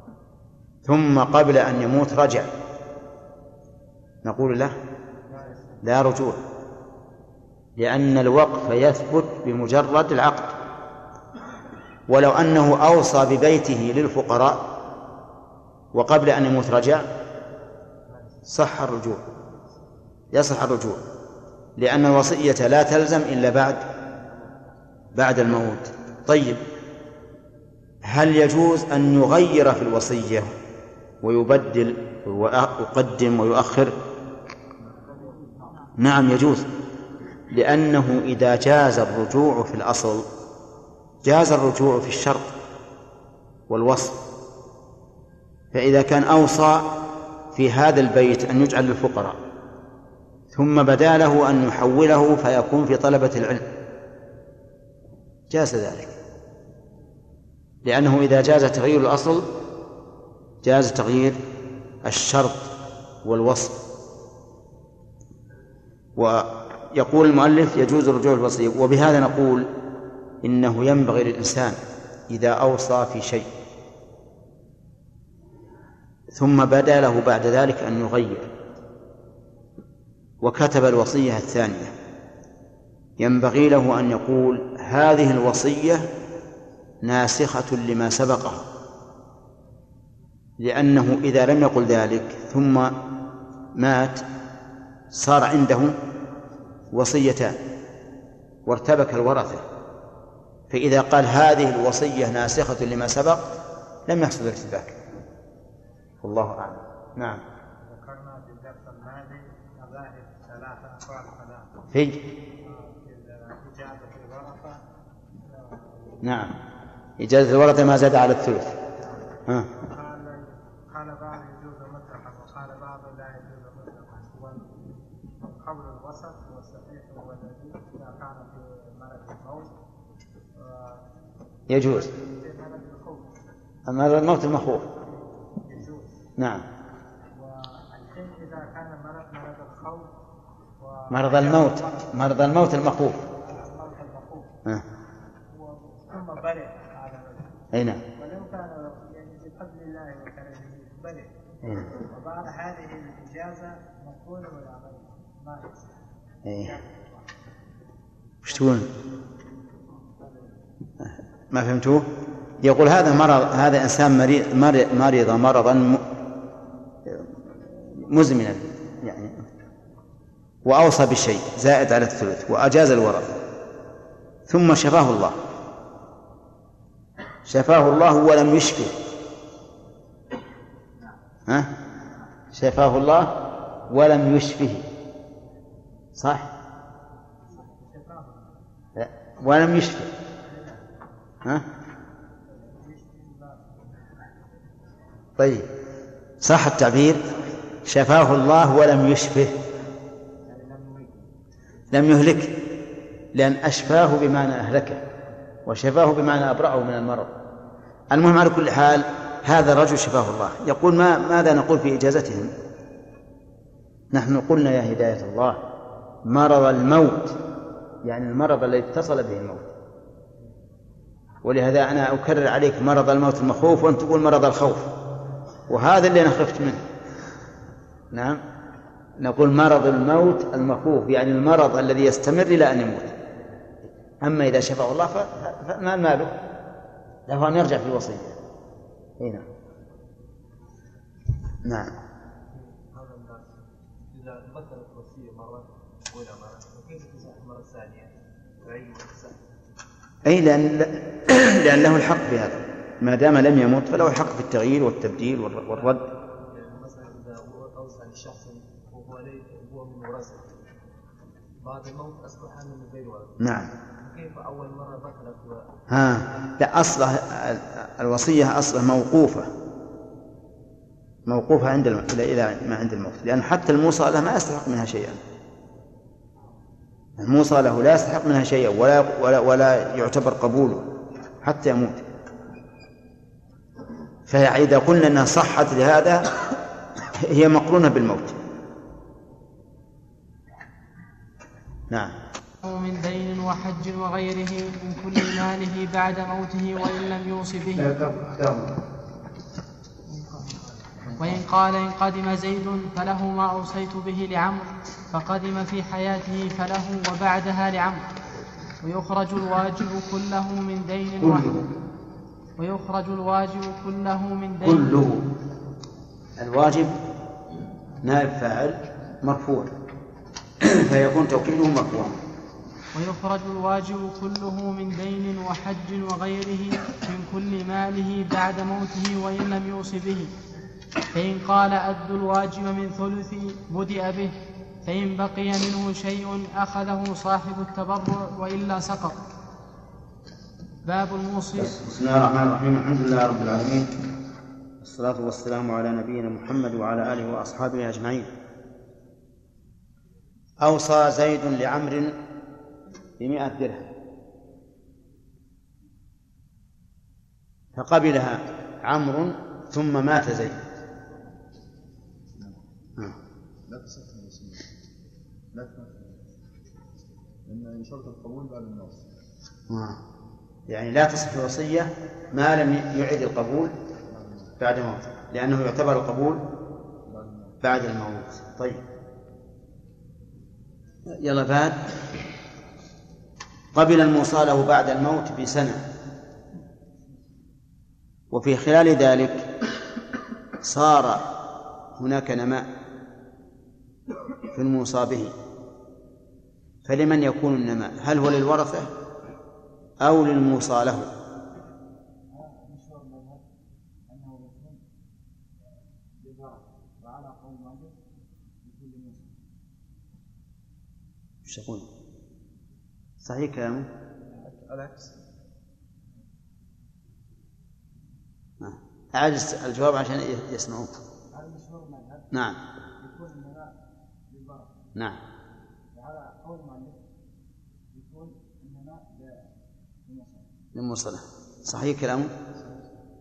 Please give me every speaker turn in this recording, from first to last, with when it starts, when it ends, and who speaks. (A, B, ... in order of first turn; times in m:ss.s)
0:00.8-0:02.5 A
0:04.2-0:04.7 A
0:05.8-0:06.4 A
0:07.8-0:10.5 A
0:12.1-0:14.6 A
0:15.9-0:17.1 A
0:18.5-0:19.3 A
0:20.3-0:21.0 A
0:21.8-0:23.8 A
0:25.1-0:26.6 A
0:28.0-0:30.5 A
0:31.2-0:34.0 A
0:35.1-0:35.7 B
0:36.0-0:36.7 A
0:37.5-0:40.2 A
0:41.2-0:42.5 A
0:43.7-0:44.2 A
0:45.7-0:46.9 A
0:47.5-0:49.4 A
0:50.5-0:53.6 A
0:55.5-0:56.2 A
0:57.8-0:59.5 A
1:00.6-1:01.4 A
1:02.0-1:02.7 A
1:03.2-1:03.8 A
1:06.2-1:09.7 A
1:10.4-1:11.8 A
1:12.3-1:13.5 A
1:16.3-1:18.5 A
1:20.4-1:21.9 A
1:23.2-1:26.1 A
1:27.0-1:28.7 A
1:30.6-1:32.9 A
1:33.8-1:34.2 A
1:35.1-1:36.0 A
1:36.9-1:37.6 A
1:38.6-1:39.6 A
1:40.7-1:43.5 A
1:44.1-1:45.0 A
1:46.2-1:47.4 A
1:47.8-1:51.7 C
1:51.9-1:52.2 A
1:52.6-1:54.8 C
1:55.4-1:56.2 C
1:56.2-1:56.5 A
1:57.2-1:58.7 A
1:59.7-2:04.8 C
2:05.4-2:09.7 C
2:10.6-2:11.0 C
2:11.7-2:12.1 A
2:11.7-2:13.3 C
2:13.9-2:14.8 A
2:14.9-2:16.1 C
2:16.4-2:16.6 A
2:17.3-2:20.1 C
2:20.8-2:22.1 C
2:21.1-2:23.2 A
2:23.4-2:24.5 C
2:25.5-2:31.3 C
2:27.7-2:28.0 A
2:31.6-2:31.9 A
2:31.9-2:35.9 C
2:36.4-2:36.7 A
2:36.5-2:37.3 C
2:38.4-2:38.9 A
2:40.2-2:40.5 B
2:41.0-2:42.1 A
2:42.6-2:46.0 A
2:47.8-2:49.4 A
2:50.6-2:53.4 A
2:54.5-2:55.4 A
2:57.4-2:59.0 A
3:02.5-3:04.9 A
3:06.2-3:06.5 A
3:07.5-3:08.5 C
3:09.0-3:10.1 A
3:10.5-3:10.8 C
3:12.5-3:14.0 C
3:15.4-3:15.7 A
3:16.4-3:17.2 A
3:17.8-3:19.6 A
3:20.5-3:21.2 C
3:21.9-3:22.5 A
3:23.3-3:25.0 A
3:25.6-3:27.3 A
3:28.1-3:32.5 A
3:34.1-3:35.6 A
3:36.2-3:37.4 A
3:38.0-3:39.7 A
3:41.4-3:44.9 A
3:45.7-3:46.8 A
3:48.1-3:48.4 A
3:49.2-3:53.1 A
3:54.2-3:56.3 A
3:57.3-3:58.4 A
3:59.2-3:59.4 A
4:01.6-4:01.9 A
4:02.5-4:03.5 B
4:04.1-4:09.4 B
4:10.2-4:16.0 A
4:16.5-4:20.5 B
4:21.6-4:23.4 B
4:23.4-4:23.7 A
4:24.0-4:25.6 B
4:25.9-4:29.5 A
4:31.3-4:35.2 A
4:37.2-4:40.9 A
4:41.4-4:42.0 A
4:44.3-4:46.2 A
4:47.2-4:48.4 A
4:51.9-4:52.1 A
4:52.6-4:57.9 D
4:57.7-4:58.7 A
5:01.2-5:08.0 D
5:08.8-5:11.5 D
5:11.2-5:11.6 A
5:12.6-5:14.9 D
5:14.6-5:15.2 A
5:16.4-5:17.0 A
5:18.0-5:19.7 A
5:20.6-5:22.2 A
5:22.9-5:30.3 D
5:31.1-5:34.3 D
5:34.8-5:39.2 D
5:40.8-5:41.7 D
5:41.6-5:43.9 A
5:44.8-5:48.3 A
5:50.6-5:52.1 A
5:53.2-5:53.9 A
5:57.8-6:00.6 A
6:03.7-6:04.6 E
6:05.5-6:06.2 E
6:07.5-6:09.0 E
6:09.7-6:10.0 A
6:10.7-6:13.7 A
6:14.6-6:16.4 A
6:17.1-6:17.5 E
6:17.6-6:18.8 A
6:21.1-6:21.8 A
6:23.7-6:25.8 A
6:28.3-6:29.5 A
6:30.6-6:31.3 A
6:32.0-6:32.6 A
6:34.5-6:35.3 A
6:36.8-6:38.9 A
6:40.0-6:41.1 A
6:42.3-6:43.4 B
6:44.1-6:44.8 B
6:46.2-6:47.9 B
6:48.6-6:49.3 B
6:51.4-6:51.9 A
6:53.2-6:53.9 A
6:54.2-6:55.2 B
6:58.6-7:00.9 A
7:01.3-7:02.3 B
7:02.3-7:02.6 A
7:03.0-7:03.7 B
7:04.3-7:04.7 B
7:05.9-7:07.0 B
7:07.9-7:09.5 B
7:10.0-7:10.5 B
7:10.7-7:12.3 A
7:12.6-7:12.8 B